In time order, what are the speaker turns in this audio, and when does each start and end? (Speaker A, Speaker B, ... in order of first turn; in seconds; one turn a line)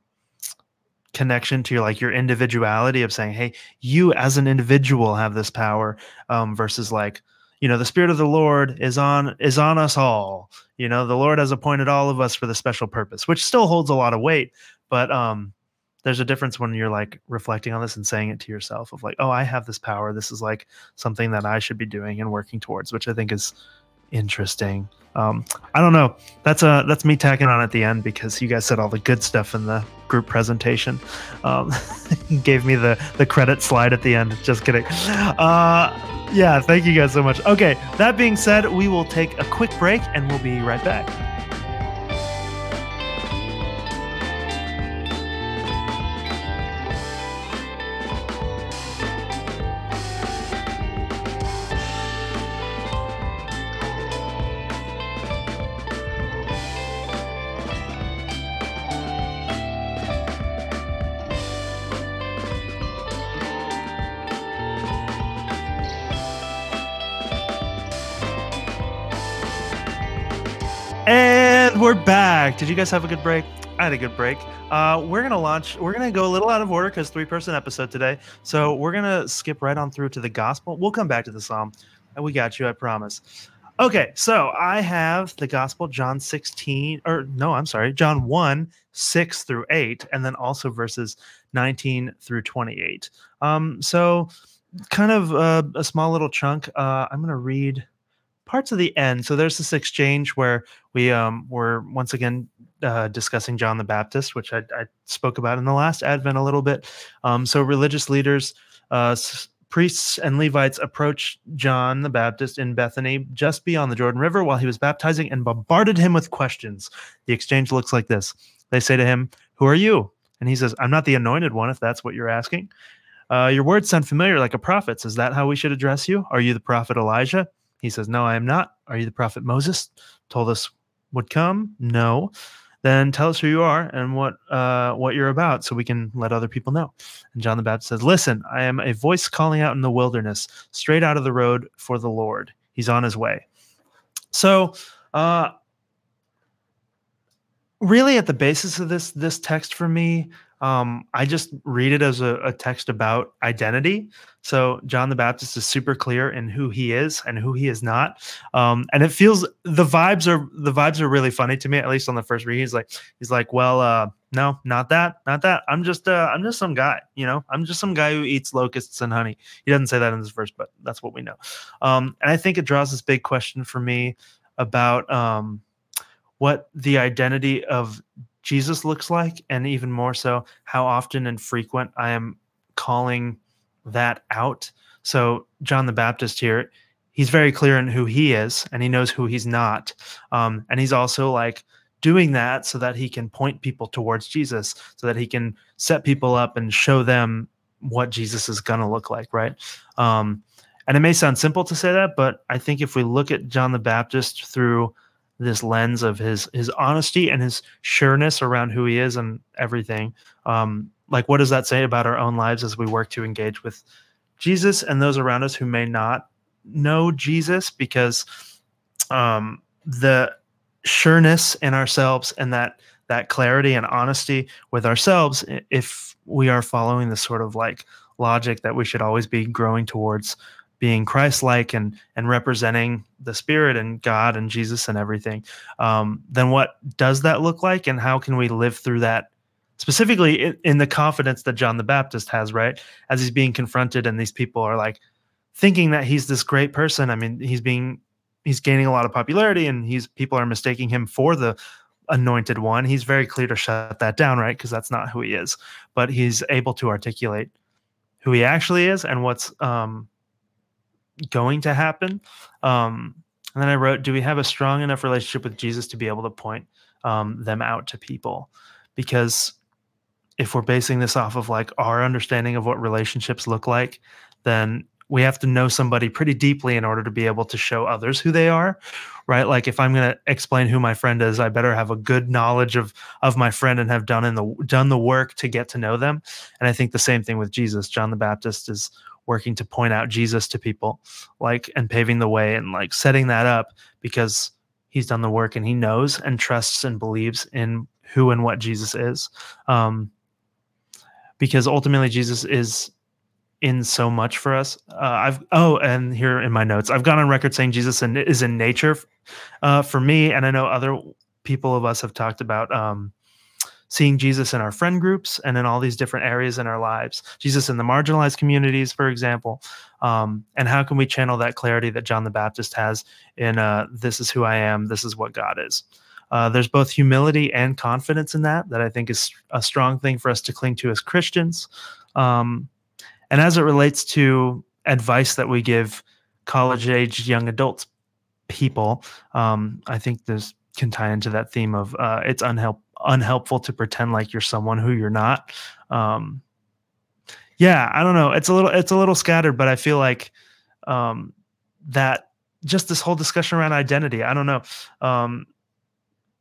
Speaker A: 1.1-15.5
Speaker A: 16.0-23.5
Speaker A: 24.1-41.1
Speaker A: 71.0-83.2
Speaker A: 83.8-94.3
Speaker A: 94.9-97.8
Speaker A: 98.5-122.7
Speaker A: 123.3-132.3
Speaker A: 132.8-143.4
Speaker A: 144.3-145.5
Speaker A: 147.8-175.6
Speaker A: 176.4-213.8
Speaker A: 214.4-218.2
Speaker A: 219.1-245.0
Speaker A: 245.5-251.6
Speaker A: 252.1-257.5
Speaker A: 258.2-260.1
Speaker A: 261.3-269.6
Speaker A: 270.4-300.1
Speaker A: 301.4-302.9
Speaker A: 303.6-309.1
Speaker A: 309.6-313.1
Speaker A: 313.9-332.7
Speaker A: 333.3-337.9
Speaker A: 338.5-346.4
Speaker A: 347.6-350.3
Speaker A: 350.9-355.5